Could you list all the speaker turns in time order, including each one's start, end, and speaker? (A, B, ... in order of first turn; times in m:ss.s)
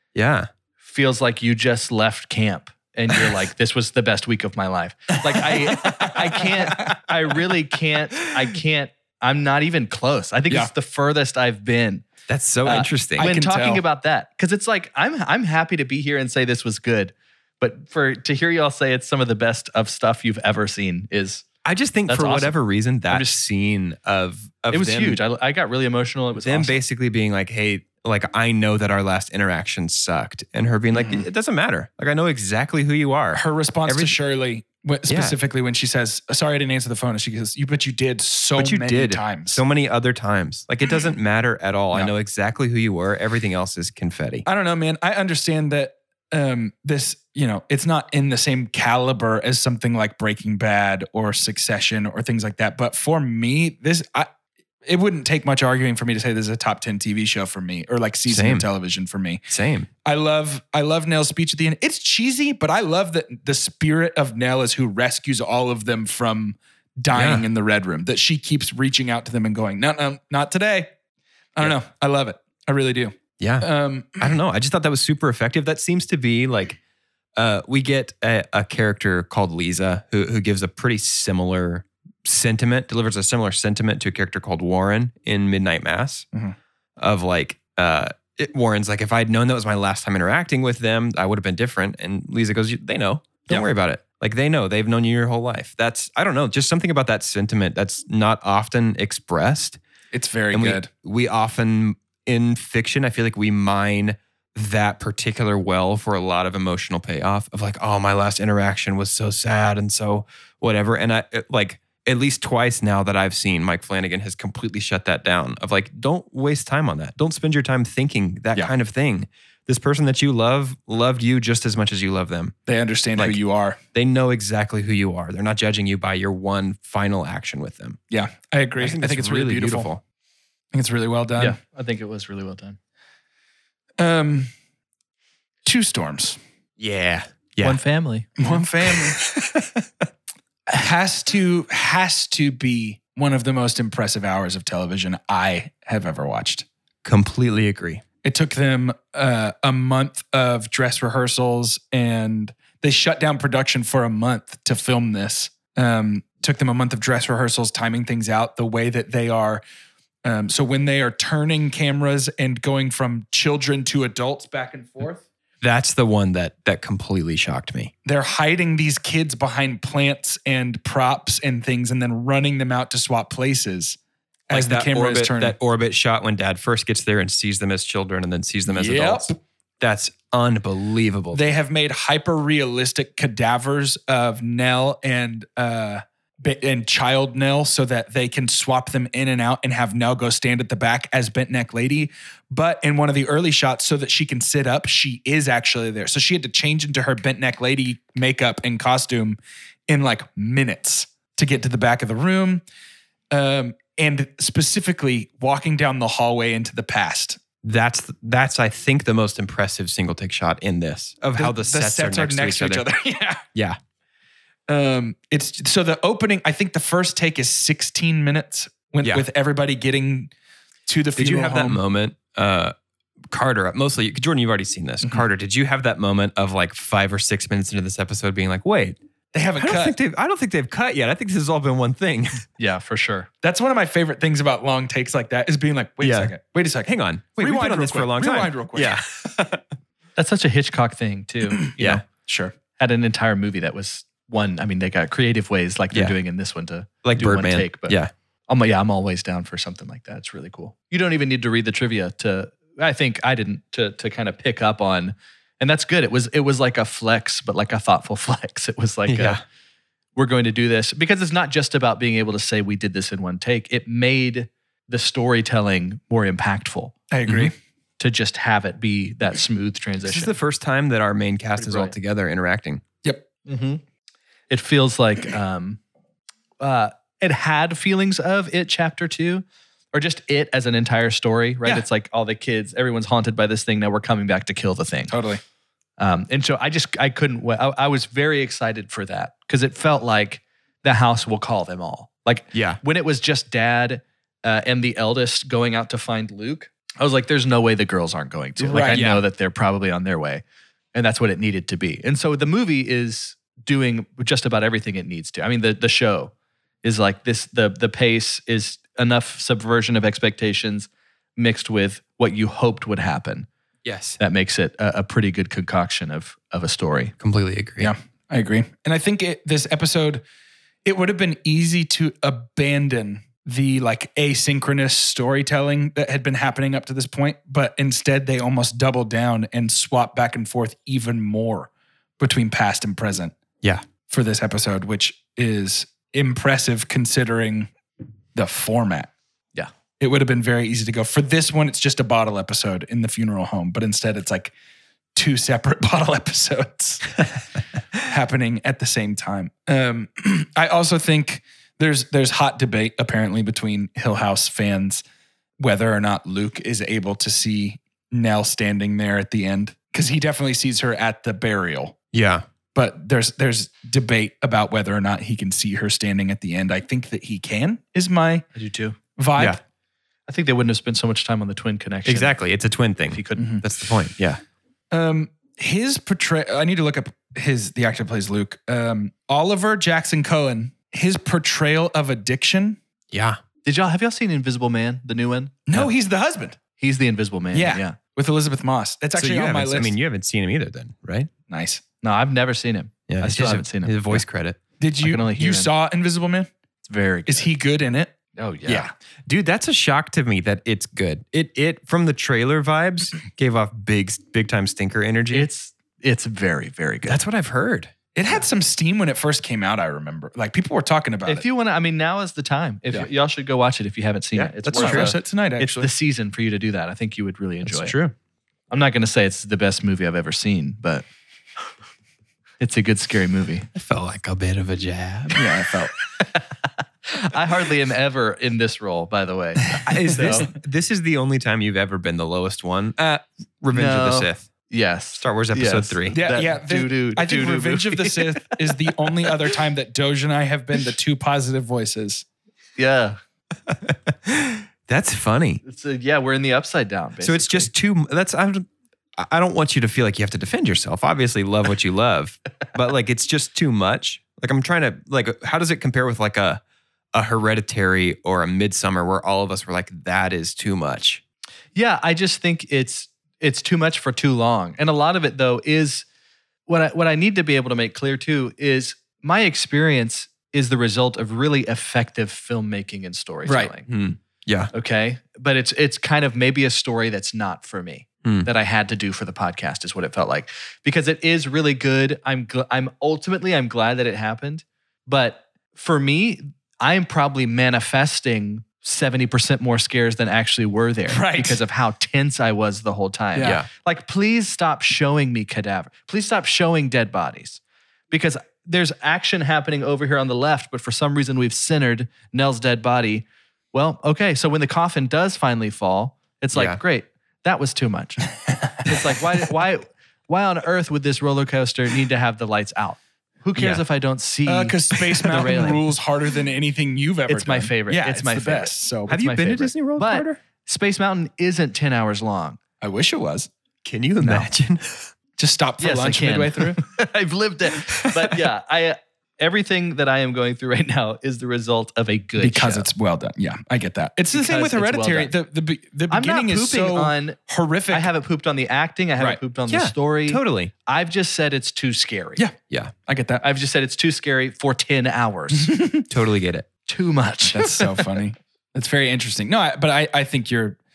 0:00.2-0:00.5 A
0:00.8-0:12.1 B
0:05.4-0:07.0 C
0:12.3-0:13.3 A
0:12.6-0:21.5 B
0:12.7-0:13.8 C
0:21.6-0:25.2 A
0:22.1-0:22.6 B
0:24.7-0:26.8 B
0:26.4-0:34.2 A
0:30.9-0:31.3 C
0:33.3-0:39.6 C
0:35.1-0:35.4 A
0:38.6-0:44.4 A
0:44.4-0:54.3 C
0:54.8-0:59.4 C
0:58.3-0:58.7 A
0:59.5-0:59.9 A
1:00.0-1:10.9 C
1:07.1-1:07.4 A
1:11.6-1:14.4 C
1:13.4-1:13.7 A
1:14.2-1:16.8 A
1:17.4-1:26.3 A
1:27.0-1:39.8 A
1:40.1-1:40.9 C
1:40.5-2:02.5 A
2:02.7-2:03.8 C
2:03.9-2:08.0 A
2:08.1-2:09.9 C
2:08.8-2:10.0 A
2:10.7-2:11.6 C
2:11.4-2:12.8 B
2:14.0-2:14.5 C
2:15.6-2:16.4 C
2:16.8-2:17.8 A
2:17.6-2:18.4 B
2:18.4-2:19.2 C
2:20.7-2:26.6 C
2:27.0-2:28.0 A
2:28.2-2:39.6 C
2:40.2-2:45.2 C
2:45.6-2:47.9 A
2:48.1-2:54.0 C
2:54.5-2:55.6 C
2:54.5-3:01.5 A
2:58.7-2:59.4 C
3:01.3-3:22.6 C
3:23.3-3:27.4 C
3:27.6-3:32.8 A
3:31.4-3:33.4 C
3:34.7-3:40.3 C
3:40.9-3:41.8 C
3:41.2-3:42.7 A
3:43.3-3:49.0 A
3:49.3-3:50.0 C
3:49.6-3:52.5 A
3:52.6-3:53.3 B
3:53.4-3:59.0 C
3:56.0-3:56.3 A
3:56.9-3:59.6 A
4:00.2-4:02.0 B
4:01.5-4:02.6 C
4:01.8-4:02.0 A
4:02.8-4:19.4 B
4:07.0-4:08.1 A
4:19.1-4:19.4 A
4:20.2-4:26.9 B
4:27.1-4:27.6 C
4:28.0-4:30.4 B
4:30.0-4:32.8 A
4:31.6-4:31.9 B
4:33.5-4:33.8 B
4:34.5-4:35.8 B
4:36.6-4:45.2 B
4:45.1-4:45.4 C
4:46.0-5:06.3 B
4:52.5-4:52.8 A
4:58.6-4:59.0 C
4:58.9-4:59.2 A
5:06.8-5:13.5 B
5:13.8-5:14.2 A
5:14.2-5:17.1 B
5:17.2-5:17.9 A
5:17.8-5:20.2 C
5:20.8-5:33.4 C
5:34.1-5:37.7 C
5:38.4-5:39.1 C
5:40.0-5:44.5 C
5:45.2-5:47.2 C
5:48.0-5:55.0 C
5:55.6-6:02.0 C
6:02.1-6:02.4 A
6:02.8-6:08.5 C
6:08.6-6:09.0 B
6:09.2-6:09.6 C
6:10.3-6:12.3 B
6:12.1-6:14.4 A
6:13.1-6:13.5 B
6:13.4-6:13.6 C
6:14.9-6:22.8 C
6:23.1-6:23.4 A
6:23.6-6:25.6 B
6:25.7-6:26.6 C
6:26.8-6:28.0 B
6:27.5-6:30.0 C
6:29.2-6:31.3 A
6:31.5-6:31.8 C
6:32.0-6:34.2 B
6:33.1-6:34.6 A
6:34.8-6:36.5 C
6:35.0-6:35.7 B
6:36.8-6:37.5 B
6:37.3-6:38.2 C
6:38.4-6:38.9 B
6:38.7-6:45.5 A
6:45.3-6:47.2 B
6:47.1-6:47.9 A
6:48.2-6:51.5 C
6:51.3-6:58.0 B
6:54.4-6:55.1 A
6:54.7-6:55.9 C
6:57.7-6:58.1 A
6:58.7-7:01.0 B
7:02.6-7:03.7 B
7:03.7-7:05.4 A
7:05.4-7:05.9 C
7:07.1-7:10.5 B
7:09.9-7:10.4 C
7:09.9-7:13.1 A
7:13.6-7:14.5 A
7:13.7-7:19.3 B
7:15.2-7:16.2 A
7:16.1-7:22.2 C
7:22.8-7:23.2 B
7:23.7-7:25.6 A
7:25.6-7:27.7 B
7:27.2-7:28.7 A
7:29.2-7:36.6 A
7:37.1-7:41.2 A
7:41.8-7:46.1 B
7:46.7-7:53.9 B
7:53.9-7:54.7 A
7:54.7-8:28.3 B
8:11.1-8:11.6 C
8:13.4-8:13.6 C
8:13.4-8:13.7 A
8:26.5-8:26.8 A
8:28.8-8:35.9 B
8:33.6-8:33.8 A
8:34.5-8:39.2 C
8:37.3-8:42.6 B
8:39.1-8:40.4 A
8:42.8-8:43.5 C
8:43.8-8:45.1 A
8:44.2-8:44.5 B
8:45.4-8:46.8 C
8:45.8-8:52.9 B
8:52.4-8:58.1 C
8:54.3-8:55.3 B
8:56.1-8:57.4 B
8:57.9-9:02.4 B
8:59.7-9:00.7 A
9:02.4-9:03.4 C
9:03.4-9:05.8 B
9:05.7-9:06.0 C
9:06.1-9:06.7 A
9:06.9-9:08.1 B
9:07.5-9:10.8 C